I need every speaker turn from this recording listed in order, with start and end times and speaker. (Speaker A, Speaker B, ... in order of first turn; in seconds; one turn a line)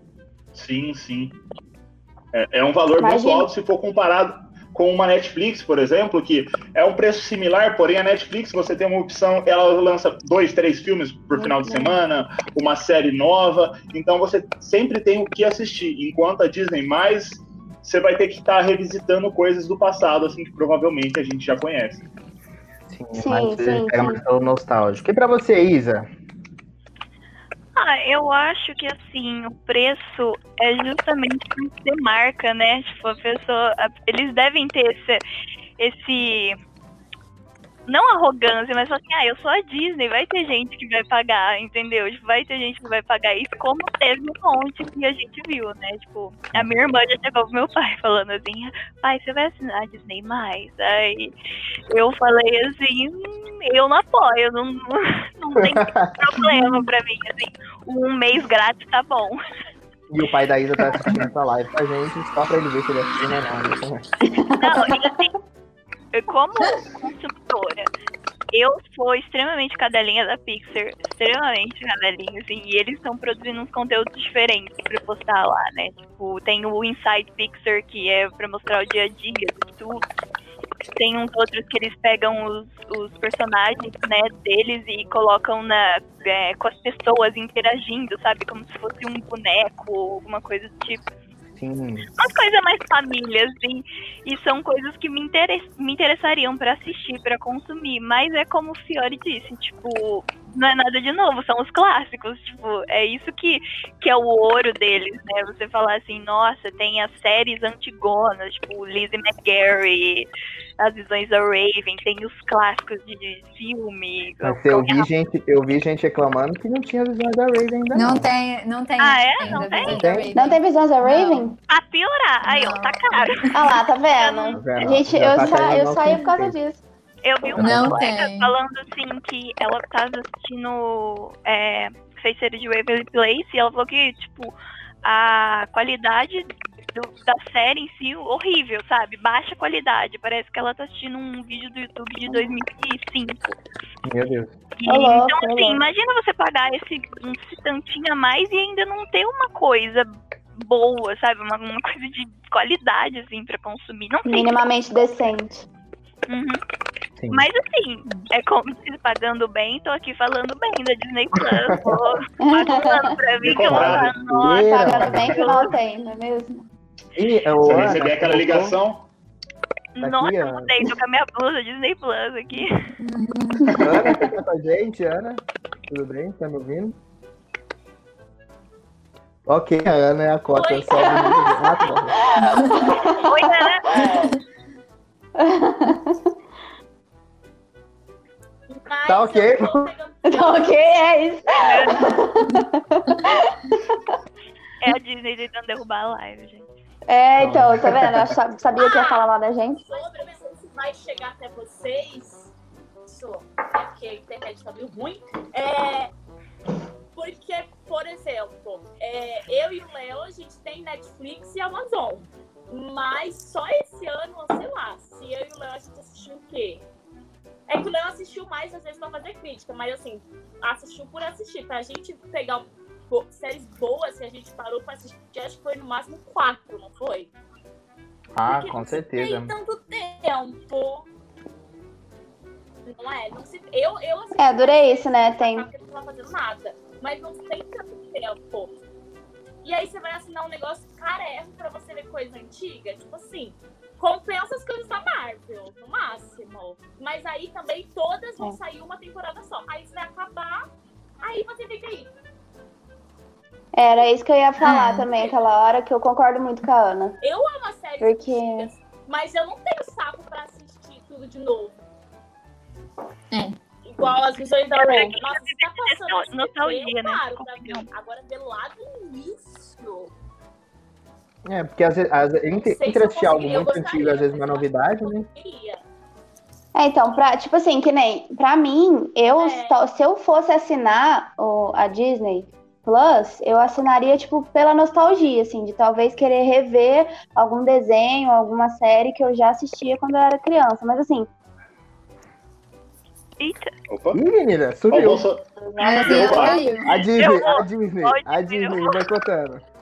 Speaker A: 0.5-1.4
Speaker A: 2.3-22.0
Speaker B: 3.0-3.5
Speaker B: 11.4-12.0
Speaker C: 22.9-26.1
Speaker B: 23.2-24.2
Speaker D: 27.8-35.3
Speaker D: 35.8-36.6
Speaker D: 37.9-51.3
Speaker D: 51.9-59.4
Speaker C: 55.6-56.4
Speaker C: 60.1-64.0
Speaker B: 64.3-65.1
Speaker D: 64.6-65.3
Speaker D: 66.1-67.9
Speaker D: 68.5-80.0
Speaker D: 80.9-91.1
Speaker C: 91.6-92.1
Speaker D: 92.2-115.1
Speaker C: 114.4-118.3
Speaker E: 117.9-121.5
Speaker D: 119.0-120.2
Speaker C: 119.5-120.3
Speaker B: 120.3-121.6
Speaker D: 121.7-124.8
Speaker E: 122.4-123.5
Speaker B: 123.5-126.8
Speaker C: 124.5-126.5
Speaker D: 127.2-143.6
Speaker C: 127.5-128.1
Speaker E: 127.6-128.5
Speaker B: 142.3-142.5
Speaker C: 144.1-144.5
Speaker D: 144.8-154.6
Speaker B: 144.9-145.8
Speaker B: 154.3-155.7
Speaker D: 156.3-156.6
Speaker C: 157.2-157.5
Speaker D: 157.3-165.7
Speaker C: 161.4-162.1
Speaker B: 162.4-163.2
Speaker A: 163.4-164.2
Speaker C: 163.6-165.4
Speaker B: 164.8-166.7
Speaker C: 167.2-168.8
Speaker A: 167.6-169.1
Speaker D: 170.0-172.9
Speaker C: 170.0-170.8
Speaker E: 173.0-173.6
Speaker B: 173.7-173.9
Speaker A: 173.7-174.0
Speaker C: 173.8-177.0
Speaker C: 179.5-182.2
Speaker F: 180.5-183.2
Speaker B: 181.0-181.3
Speaker B: 182.3-184.3
Speaker D: 183.2-183.9
Speaker B: 185.4-186.2
Speaker F: 188.7-191.7
Speaker C: 189.1-189.9
Speaker B: 190.3-194.0
Speaker D: 191.6-192.1
Speaker D: 194.8-196.7
Speaker B: 197.1-199.9
Speaker C: 197.4-198.3
Speaker F: 198.8-199.3
Speaker F: 199.8-202.5
Speaker F: 203.1-206.1
Speaker F: 207.2-216.8
Speaker F: 217.7-227.3
Speaker C: 228.3-229.5
Speaker F: 228.5-231.1
Speaker F: 232.8-238.8
Speaker B: 234.4-235.7
Speaker F: 239.6-250.7
Speaker F: 251.2-252.1
Speaker B: 253.7-257.2
Speaker E: 254.6-255.1
Speaker F: 255.1-255.4
Speaker F: 257.2-261.8
Speaker B: 258.0-258.7
Speaker E: 263.3-263.6
Speaker F: 263.8-270.1
Speaker D: 264.8-267.9
Speaker C: 271.4-275.3
Speaker F: 272.5-275.8
Speaker B: 276.8-291.3
Speaker F: 279.4-279.8
Speaker D: 293.4-293.7
Speaker A: 293.9-294.2
Speaker C: 294.1-295.3
Speaker A: 294.9-296.7
Speaker B: 295.6-296.8
Speaker E: 295.8-297.1
Speaker C: 296.8-299.6
Speaker D: 297.1-299.1